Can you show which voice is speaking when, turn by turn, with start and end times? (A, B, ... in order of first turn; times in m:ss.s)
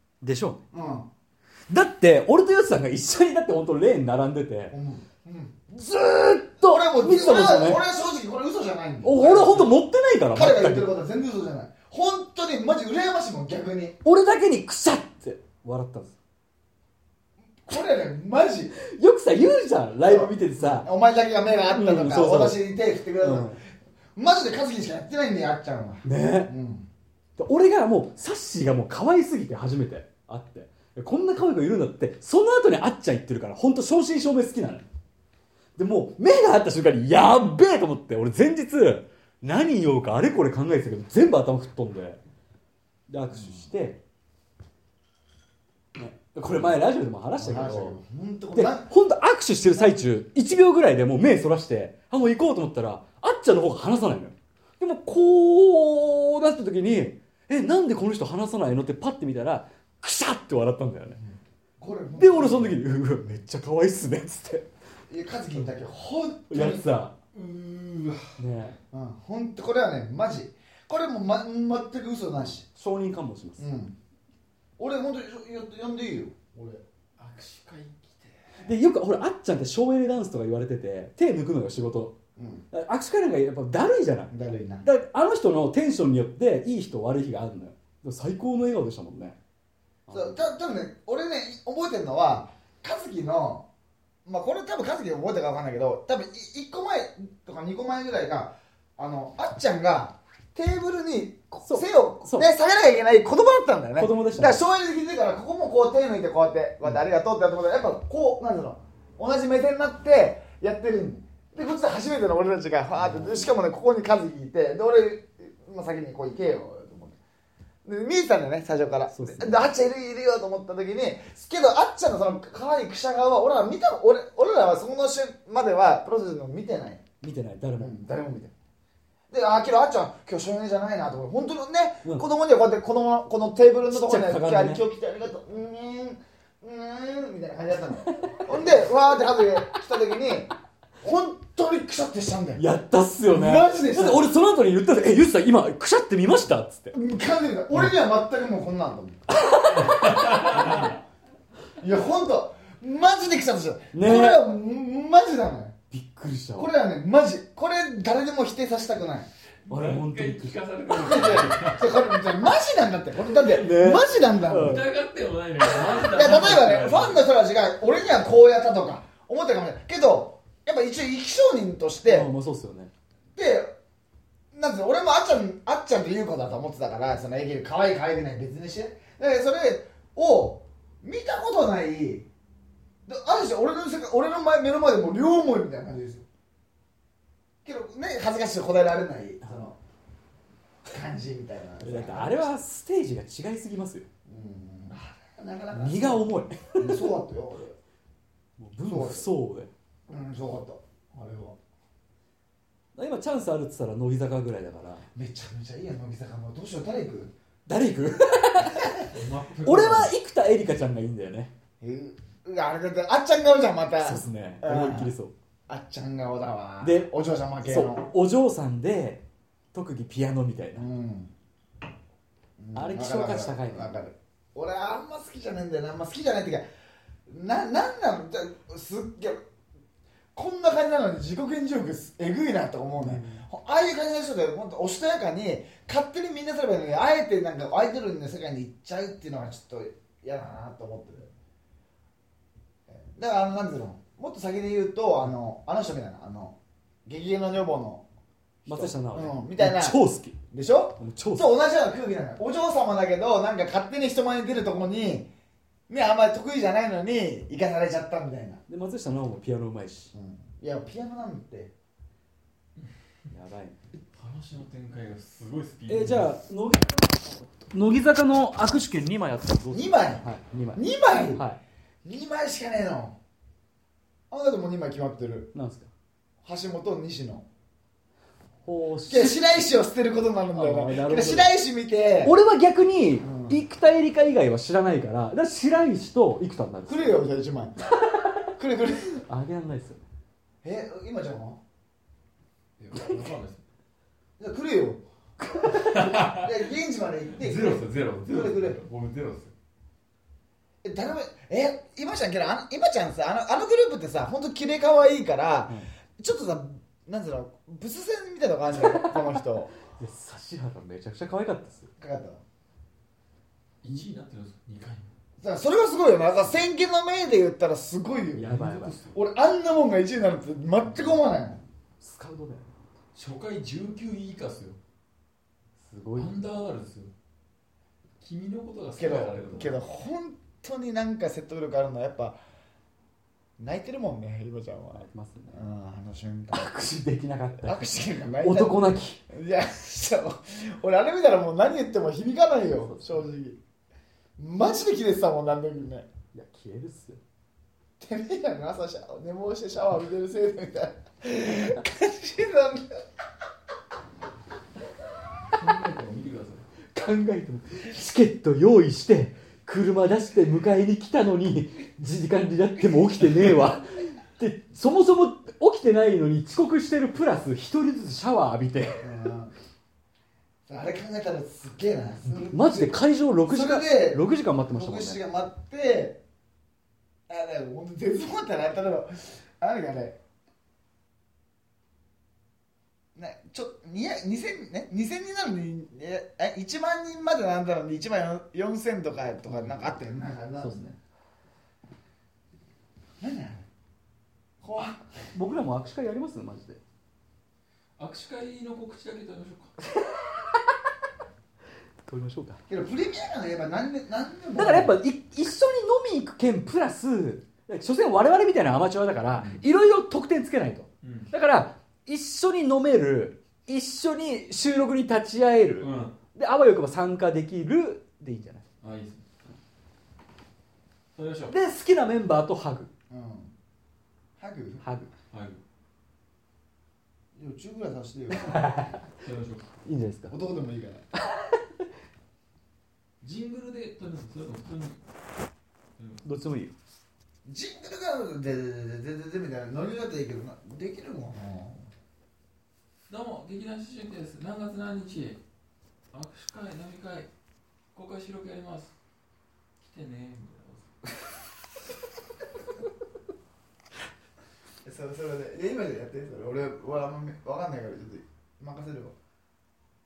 0:00.2-0:00.6 A
0:00.7-0:01.1 B
0:01.7-0:04.7 A
0:04.7-0:05.6 B
0:05.7-0:07.8 A
0:06.6-0:09.7 B
0:09.0-0:10.9 A
0:10.3-0:14.0 B
0:14.0-0:16.1 A
0:17.6-0:18.7 B
0:18.7-0:20.9 A
0:20.0-0:23.6 B
0:21.7-0:22.6 A
0:23.2-0:23.6 A
0:24.2-0:26.9 B
0:26.0-0:26.5 A
0:27.4-0:34.9 A
0:35.8-0:42.2 A
0:43.1-0:44.0 A
0:43.3-0:43.7 B
0:45.9-0:48.0 A
0:47.3-0:48.9 B
0:48.5-1:01.2 A
1:01.2-1:03.3 B
1:02.2-1:04.6 A
1:05.1-1:07.0 B
1:06.5-1:07.1 A
1:07.3-1:08.4 C
1:08.4-1:08.8 A
1:08.9-1:12.6 B
1:12.7-1:13.7 A
1:13.6-1:13.9 B
1:14.8-1:16.8 B
1:17.2-1:18.8 C
1:18.6-1:22.2 A
1:22.4-1:22.6 B
1:22.7-1:24.3 A
1:24.3-1:24.9 B
1:24.8-1:29.4 A
1:30.1-1:30.5 A
1:30.1-1:33.6 B
1:34.2-1:57.2 B
1:41.5-1:42.5 A
1:44.0-1:44.6 A
1:53.0-1:53.5 A
1:57.8-2:07.0 B
1:59.1-1:59.7 A
2:07.2-2:07.9 A
2:07.8-2:08.5 B
2:09.3-2:22.6 B
2:13.9-2:14.8 A
2:18.1-2:18.4 A
2:22.6-2:26.9 A
2:23.3-2:24.3 B
2:26.9-2:29.2 B
2:29.3-2:31.0 A
2:29.7-2:30.9 C
2:30.4-2:30.9 B
2:31.8-2:35.7 B
2:33.9-2:34.4 A
2:35.9-2:36.7 A
2:36.6-2:39.3 B
2:39.6-2:42.0 C
2:39.7-2:41.4 A
2:40.9-2:44.8 B
2:43.2-2:44.9 A
2:44.5-2:47.3 C
2:45.9-2:46.6 A
2:46.1-2:52.3 B
2:52.0-2:52.9 A
2:53.3-2:53.7 B
2:54.5-3:02.3 B
3:03.0-3:06.2 B
3:07.6-3:09.8 B
3:10.8-3:12.5 B
3:11.8-3:14.1 A
3:14.2-3:17.8 B
3:15.7-3:17.2 A
3:18.6-3:19.7 A
3:18.8-3:19.3 B
3:20.1-3:21.6 B
3:22.9-3:25.1 A
3:25.1-3:27.3 B
3:27.6-3:29.1 A
3:29.0-3:30.1 C
3:29.6-3:31.5 A
3:31.8-3:35.1 B
3:34.0-3:35.3 A
3:35.7-3:38.1 B
3:36.8-3:37.1 A
3:37.6-3:40.8 A
3:40.8-3:41.3 B
3:42.6-3:46.6 B
3:42.7-3:44.0 A
3:47.3-3:49.4 B
3:50.3-4:01.3 B
3:53.0-3:53.4 A
4:02.9-4:08.0 B
4:08.6-4:10.0 B
4:08.6-4:10.4 A
4:10.5-4:15.3 B
4:11.0-4:11.4 A
4:15.9-4:18.6 B
4:18.7-4:20.1 A
4:20.1-4:21.7 B
4:23.3-4:23.8 A
4:24.1-4:26.4 C
4:25.9-4:31.6 A
4:29.7-4:31.4 B
4:32.0-4:33.2 B
4:34.3-4:35.5 B
4:35.5-4:35.9 A
4:36.4-4:37.4 B
4:38.6-4:39.5 A
4:39.1-4:42.4 B
4:40.5-4:41.5 A
4:42.2-4:47.2 A
4:43.2-4:43.6 B
4:46.8-4:47.9 B
4:48.5-4:49.2 B
4:49.2-4:50.0 A
4:50.6-4:51.6 B
4:52.8-4:53.6 C
4:54.4-4:55.0 B
4:55.4-4:56.1 A
4:55.7-4:56.6 C
4:56.3-4:58.8 B
4:57.3-4:59.5 C
5:00.8-5:09.7 B
5:08.7-5:11.9 A
5:12.0-5:12.4 B
5:13.8-5:15.1 C
5:15.4-5:18.5 B
5:18.4-5:19.0 A
5:18.4-5:19.2 C
5:19.1-5:21.6 B
5:20.8-5:21.2 A
5:22.0-5:22.7 A
5:23.1-5:24.8 C
5:25.8-5:26.4 A
5:26.1-5:27.1 C
5:28.2-5:29.8 C
5:29.0-5:32.4 B
5:33.6-5:36.9 B
5:34.9-5:35.6 A
5:36.5-5:39.2 A
5:37.6-5:43.6 B
5:42.8-5:43.3 A
5:44.4-5:46.1 B
5:46.3-5:47.2 A
5:48.0-5:52.9 B
5:55.5-5:56.7 C
5:56.9-6:09.1 A
6:09.0-6:09.5 B
6:10.7-6:16.2 B
6:12.2-6:15.2 A
6:17.3-6:20.2 B
6:23.1-6:31.0 B
6:29.5-6:30.0 A
6:30.6-6:30.9 A
6:33.2-6:33.6 B
6:34.6-6:35.2 B
6:35.3-6:36.8 A
6:38.0-6:39.8 C
6:40.0-6:40.6 A
6:42.0-6:42.6 A
6:42.7-6:45.0 B
6:44.5-6:58.6 A
6:51.0-6:51.3 C
6:55.8-6:56.2 C
6:58.8-6:59.3 C
7:01.1-7:01.6 C
7:01.5-7:02.9 A
7:03.1-7:03.5 B
7:04.4-7:04.9 B
7:04.8-7:05.1 A
7:05.3-7:05.6 C
7:07.3-7:08.7 B
7:08.3-7:09.0 A
7:09.2-7:09.7 C
7:09.8-7:10.3 A
7:10.3-7:11.1 B
7:11.3-7:11.6 A
7:13.2-7:15.0 C
7:16.0-7:16.3 C
7:16.2-7:16.7 A
7:17.4-7:21.9 B
7:23.1-7:25.4 C
7:26.1-7:27.3 C
7:27.9-7:29.0 C
7:29.8-7:30.9 C
7:34.8-7:39.1 B